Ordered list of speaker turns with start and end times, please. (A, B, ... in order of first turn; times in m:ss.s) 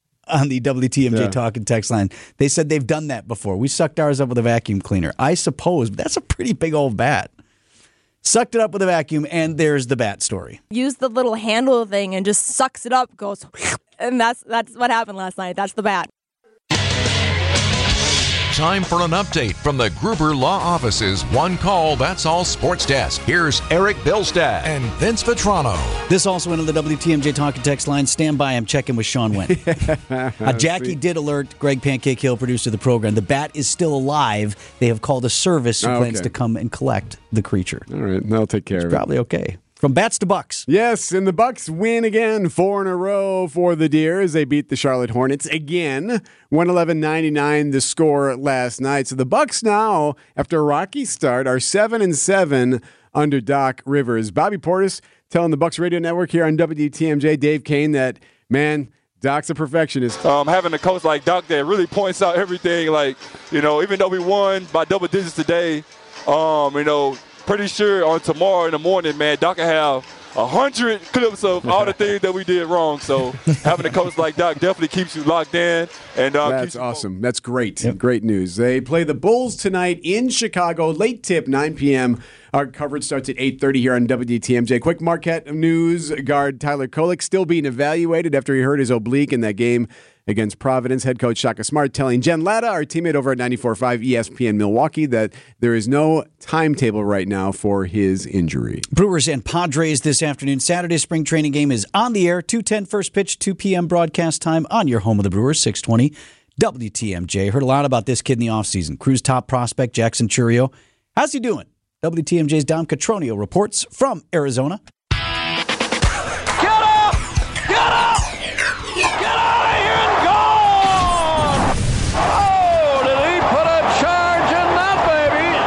0:00.3-0:07.3 A
0:08.2-0:10.6 A
0:10.7-0:16.1 B
0:18.5-0:26.0 C
0:26.1-0:29.6 A
0:29.5-0:31.0 D
0:30.4-0:37.9 A
0:35.8-0:36.3 D
0:37.9-0:39.0 D
0:38.7-0:40.7 A
0:40.7-1:00.2 D
1:00.2-1:17.0 E
1:11.6-1:11.9 D
1:16.4-1:38.8 D
1:38.9-1:54.8 A
1:56.8-1:57.1 E
1:59.2-2:01.2 E
2:02.4-2:05.6 E